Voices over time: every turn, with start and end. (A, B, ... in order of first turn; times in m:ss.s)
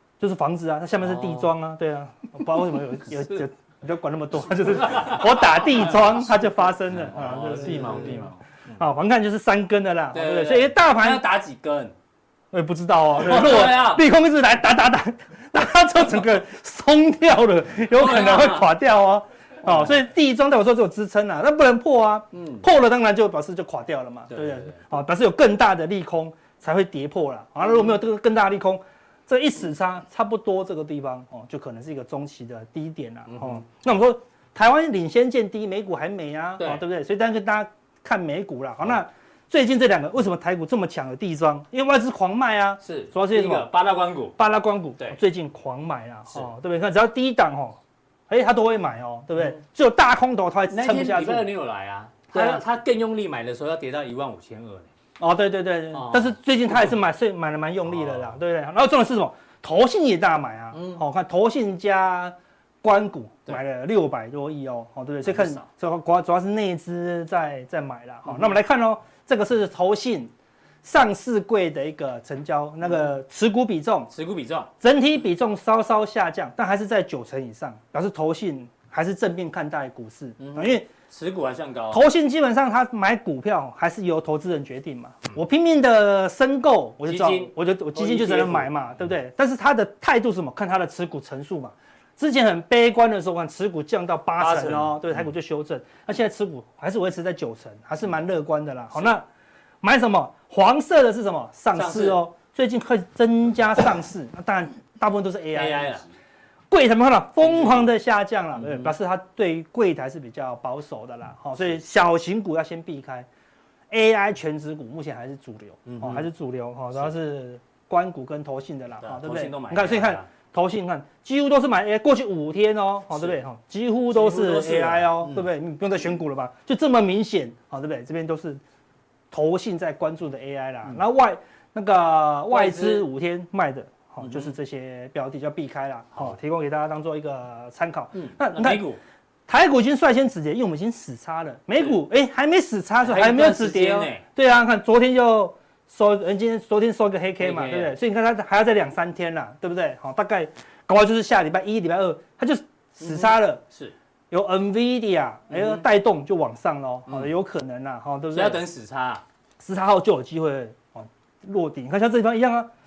0:00.2-0:11.2 A
0:01.0-0:01.5 B
0:04.9-0:05.2 B
0:07.1-0:08.4 B
0:10.1-0:12.0 B
0:12.5-0:43.7 A
0:13.2-0:14.0 B
0:17.9-0:18.7 B
0:22.3-0:22.6 B
0:24.3-0:24.9 B
0:33.3-0:33.6 B
0:42.8-0:44.4 B
0:44.4-0:47.8 A
0:48.3-0:51.5 A
0:50.7-0:54.9 B
0:52.3-0:52.6 A
0:55.2-1:10.3 A
0:55.9-0:56.4 B
0:58.0-0:58.3 B
1:00.7-1:01.0 B
1:05.2-1:05.6 B
1:10.8-1:14.1 A
1:14.1-1:14.7 B
1:14.8-1:20.9 A
1:20.4-1:22.0 B
1:21.9-1:39.3 A
1:27.0-1:28.7 B
1:34.4-1:35.0 B
1:39.8-1:45.9 A
1:41.7-1:42.2 B
1:45.5-1:46.1 B
1:46.7-1:53.3 A
1:47.4-1:47.9 B
1:48.6-1:48.9 B
1:53.9-2:08.6 A
1:55.9-1:56.3 B
1:59.0-2:00.3 B
2:04.1-2:05.4 B
2:09.3-2:18.9 A
2:12.5-2:13.1 B
2:14.2-2:14.5 B
2:18.1-2:19.0 B
2:19.5-2:33.6 A
2:23.0-2:24.2 B
2:27.4-2:27.9 B
2:33.0-2:34.0 B
2:34.3-2:38.6 A
2:35.5-2:35.8 B
2:38.3-2:39.2 B
2:39.6-2:42.7 A